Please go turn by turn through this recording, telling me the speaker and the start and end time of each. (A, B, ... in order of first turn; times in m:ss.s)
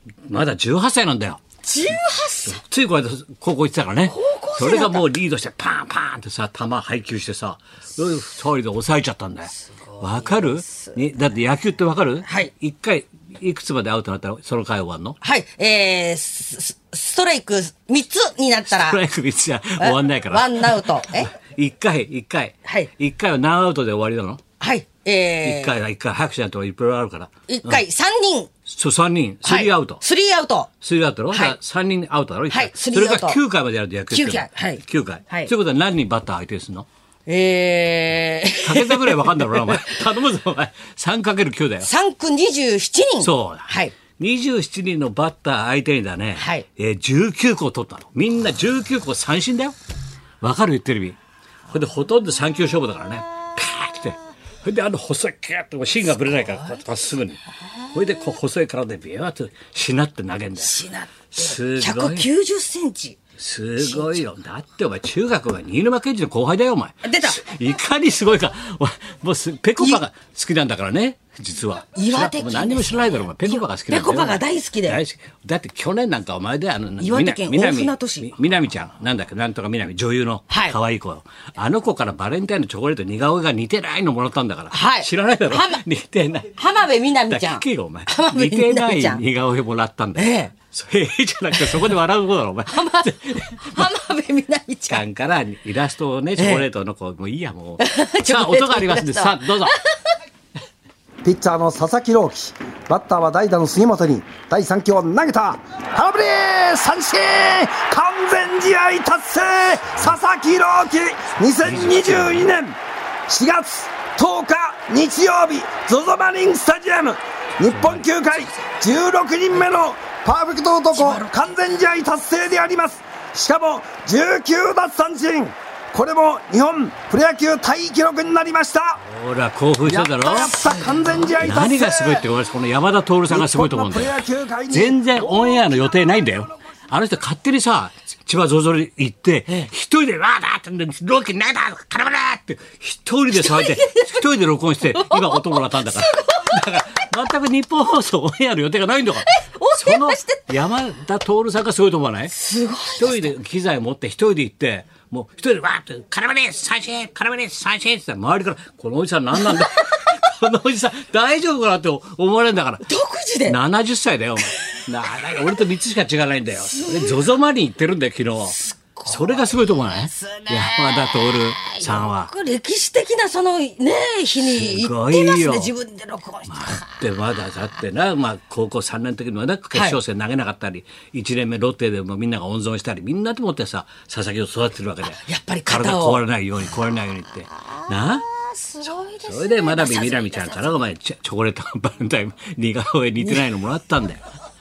0:00.3-0:01.4 A
0:01.6-0:02.6 B
0:02.4-0:15.2 A
0:04.1-0:05.1 B
0:09.9-0:11.0 B
0:15.2-0:19.0 B
0:18.6-0:24.4 A
0:19.8-0:21.3 B
0:22.6-0:22.9 B
0:24.6-0:25.7 B
0:25.4-0:27.8 A
0:27.5-0:28.5 B
0:28.7-0:30.0 A
0:29.4-0:30.7 B
0:30.8-0:36.8 A
0:31.3-0:31.6 B
0:32.5-0:33.4 B
0:34.1-0:35.5 B
0:37.3-0:40.0 B
0:38.6-0:41.9 A
0:41.8-0:44.0 B
0:43.2-0:49.7 A
0:46.4-0:46.6 B
0:50.4-0:51.2 A
0:51.7-0:57.4 A
0:57.9-1:00.8 A
1:00.6-1:03.2 B
1:01.3-1:02.3 A
1:03.4-1:26.6 A
1:03.8-1:04.2 B
1:07.0-1:07.4 B
1:11.9-1:15.0 B
1:17.0-1:18.3 B
1:20.5-1:20.8 B
1:24.7-1:25.8 B
1:26.6-1:29.2 B
1:27.3-1:33.9 A
1:30.2-1:30.5 B
1:31.5-1:31.8 B
1:32.7-1:35.0 B
1:34.9-1:39.8 A
1:36.4-1:36.6 B
1:37.8-1:40.1 B
1:41.2-2:09.0 C
1:51.6-1:52.5 A
1:57.6-1:58.1 A
2:00.9-2:01.5 B
2:09.0-2:10.6 A
2:09.8-2:12.2 C
2:10.4-2:11.2 B
2:11.4-2:14.2 A
2:13.3-2:15.0 C
2:14.7-2:32.3 A
2:23.4-2:24.2 B
2:24.9-2:27.1 B
2:29.3-2:30.4 B
2:32.3-2:33.2 B
2:32.9-2:42.9 A
2:42.8-2:43.6 B
2:43.4-2:52.3 A
2:46.7-2:47.2 B
2:49.0-2:56.9 B
2:54.4-2:55.7 A
2:56.5-3:08.3 A
3:05.1-3:06.2 B
3:07.7-3:10.8 B
3:09.2-3:14.2 A